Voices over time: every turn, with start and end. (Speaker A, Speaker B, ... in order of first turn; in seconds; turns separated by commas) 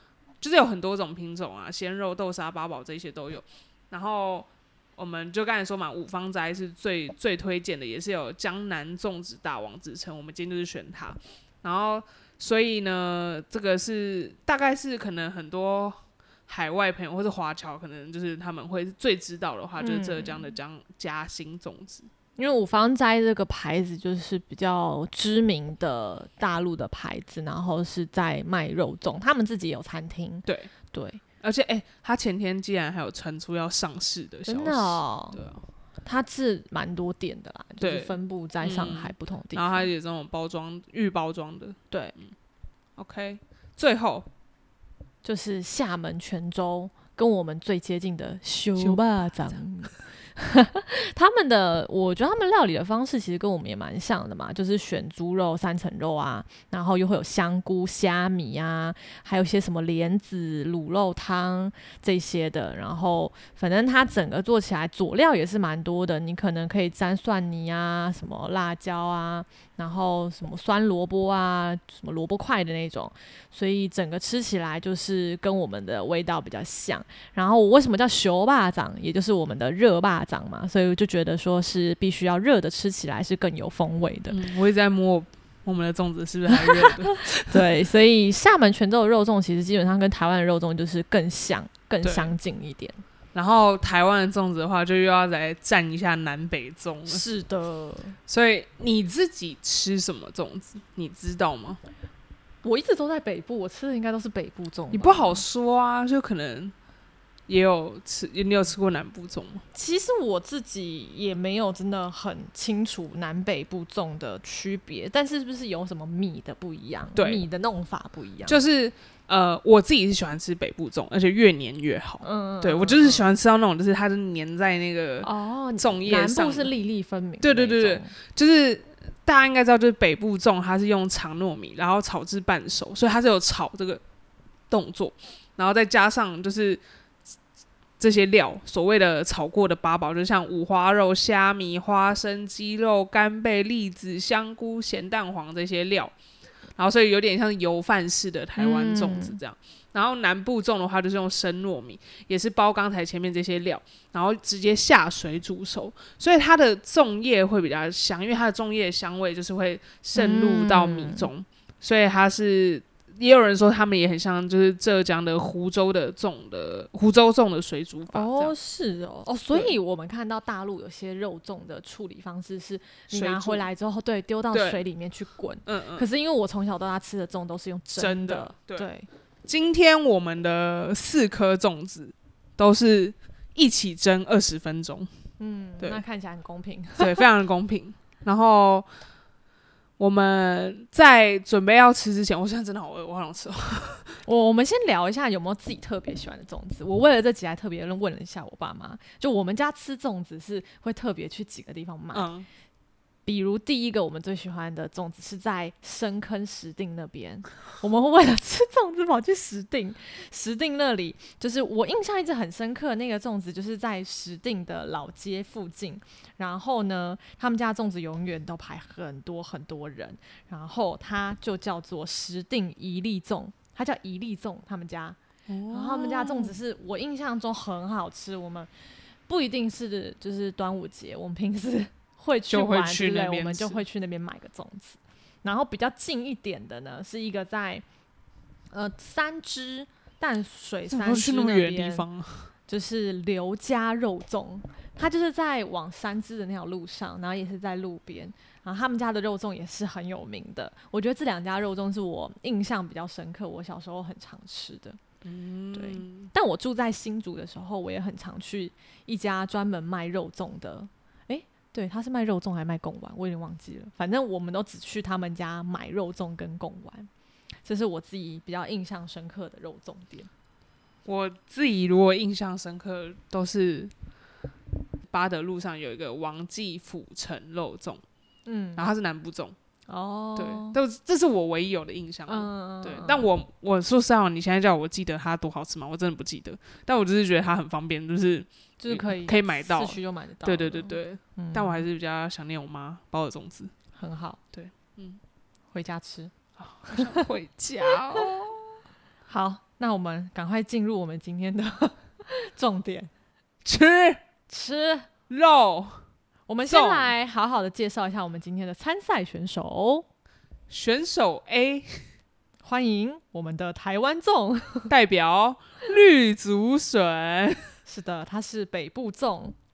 Speaker A: 0.4-22.1, Speaker B: 19.8-20.5, Speaker B: 22.4-31.2, Speaker A: 31.4-35.6, Speaker B: 34.5-35.4, Speaker B: 36.0-39.9, Speaker A: 37.8-42.3, Speaker A: 43.0-44.3, Speaker B: 45.2-84.4, Speaker A: 48.8-49.6, Speaker A: 84.3-87.6, Speaker B: 86.5-93.0, Speaker A: 92.0-92.3, Speaker A: 93.3-97.2, Speaker B: 97.1-98.2, Speaker A: 98.3-101.8, Speaker B: 102.6-105.4, Speaker A: 104.9-106.7, Speaker A: 107.5-109.6, Speaker B: 109.7-118.6, Speaker A: 117.2-117.4, Speaker A: 118.5-126.7, Speaker B: 122.2-123.2, Speaker B: 125.2-128.1, Speaker A: 127.4-134.0, Speaker A: 134.7-136.8, Speaker A: 138.0-146.1, Speaker A: 146.8-168.5, Speaker B: 148.6-149.4, Speaker B: 160.1-161.3, Speaker B: 168.1-179.1, Speaker A: 173.1-173.6, Speaker A: 174.5-174.8, Speaker A: 175.7-176.1, Speaker A: 177.9-178.9, Speaker A: 179.4-185.1, Speaker B: 185.4-187.2, Speaker A: 187.0-188.9, Speaker A: 190.0-194.2, Speaker B: 194.2-202.3, Speaker A: 202.1-202.4, Speaker B: 203.2-225.2, Speaker A: 225.5-226.6, Speaker B: 225.7-228.7, Speaker B: 229.3-237.8, Speaker A: 232.5-233.8, Speaker B: 238.7-242.1, Speaker A: 240.9-242.5, Speaker B: 242.7-255.0, Speaker A: 255.2-256.3, Speaker B: 255.7-267.1, Speaker B: 267.6-270.3, Speaker A: 271.1-273.9, Speaker A: 275.1-278.0, Speaker B: 278.4-278.9, Speaker A: 278.8-279.6, Speaker B: 279.9-280.8, Speaker A: 280.4-293.7, Speaker B: 282.3-283.3, Speaker B: 288.8-291.8, Speaker B: 293.9-294.4, Speaker A: 294.5-295.2, Speaker B: 295.7-296.3, Speaker A: 296.6-298.7, Speaker B: 296.9-297.3, Speaker B: 299.3-303.1, Speaker A: 303.6-304.2, Speaker B: 304.5-305.1, Speaker A: 305.3-306.0, Speaker B: 306.5-310.1, Speaker A: 306.7-307.1, Speaker A: 310.7-312.1, Speaker B: 312.6-314.9, Speaker A: 314.9-317.8, Speaker B: 317.9-319.6